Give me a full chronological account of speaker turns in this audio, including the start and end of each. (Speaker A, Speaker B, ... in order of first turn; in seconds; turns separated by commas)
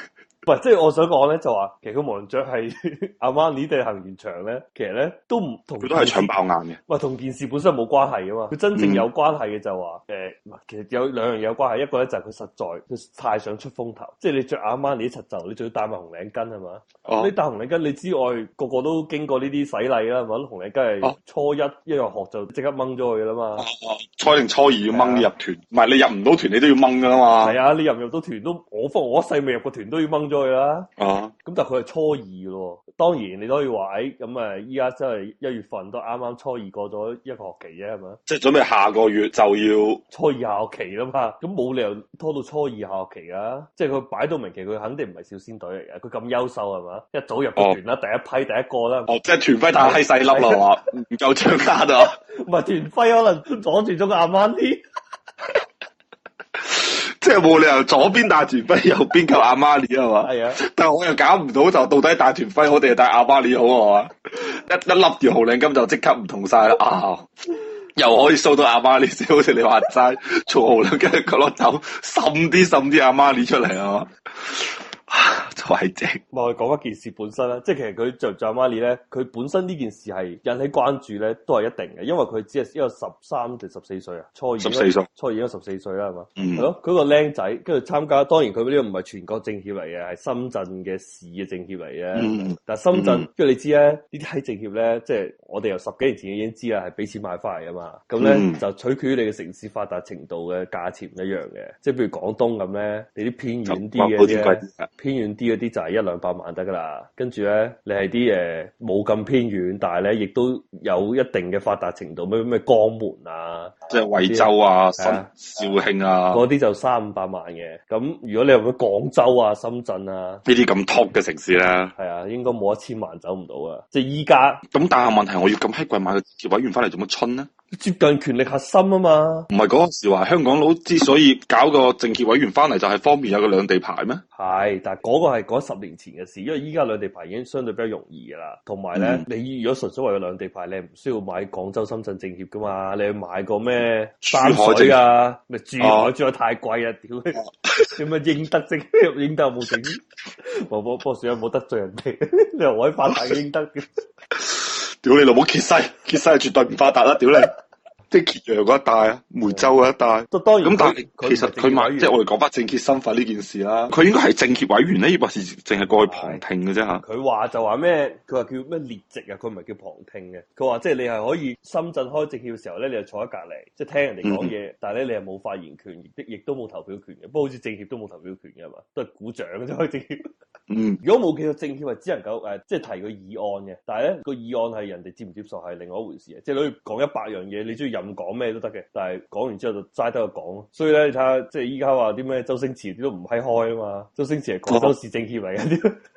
Speaker A: 0.4-6.3, Speaker B: 5.8-6.8, Speaker A: 6.8-23.6, Speaker B: 8.8-9.1, Speaker B: 17.1-17.3, Speaker B: 23.6-27.6, Speaker A: 24.9-25.3, Speaker A: 27.4-30.9, Speaker B: 31.0-31.3, Speaker A: 31.4-38.2, Speaker B: 38.3-40.0, Speaker A: 40.1-49.1, Speaker B: 49.1-52.2, Speaker A: 49.8-50.7, Speaker A: 52.3-54.8, Speaker B: 56.6-67.3, Speaker A: 60.2-60.6, Speaker B: 67.9-76.2, Speaker A: 76.3-115.3, Speaker B: 84.6-85.1, Speaker B: 86.4-86.7, Speaker B: 92.1-93.2, Speaker B: 98.2-98.6, Speaker B: 103.7-104.9, Speaker B: 113.9-116.5, Speaker A: 116.3-120.4, Speaker B: 120.5-121.9, Speaker A: 122.0-124.6, Speaker B: 124.7-127.5, Speaker A: 127.7-129.5, Speaker B: 129.5-134.2, Speaker A: 134.3-147.4, Speaker B: 138.9-139.2, Speaker B: 144.2-145.0, Speaker B: 145.8-146.1, Speaker B: 147.3-148.0, Speaker A: 148.0-154.0, Speaker B: 153.1-153.3, Speaker B: 154.3-157.5, Speaker B: 158.1-167.0, Speaker A: 159.4-159.7, Speaker A: 160.3-162.2, Speaker A: 166.0-166.4, Speaker A: 167.0-180.3, Speaker B: 174.2-174.5, Speaker B: 180.7-181.0, Speaker A: 181.0-196.0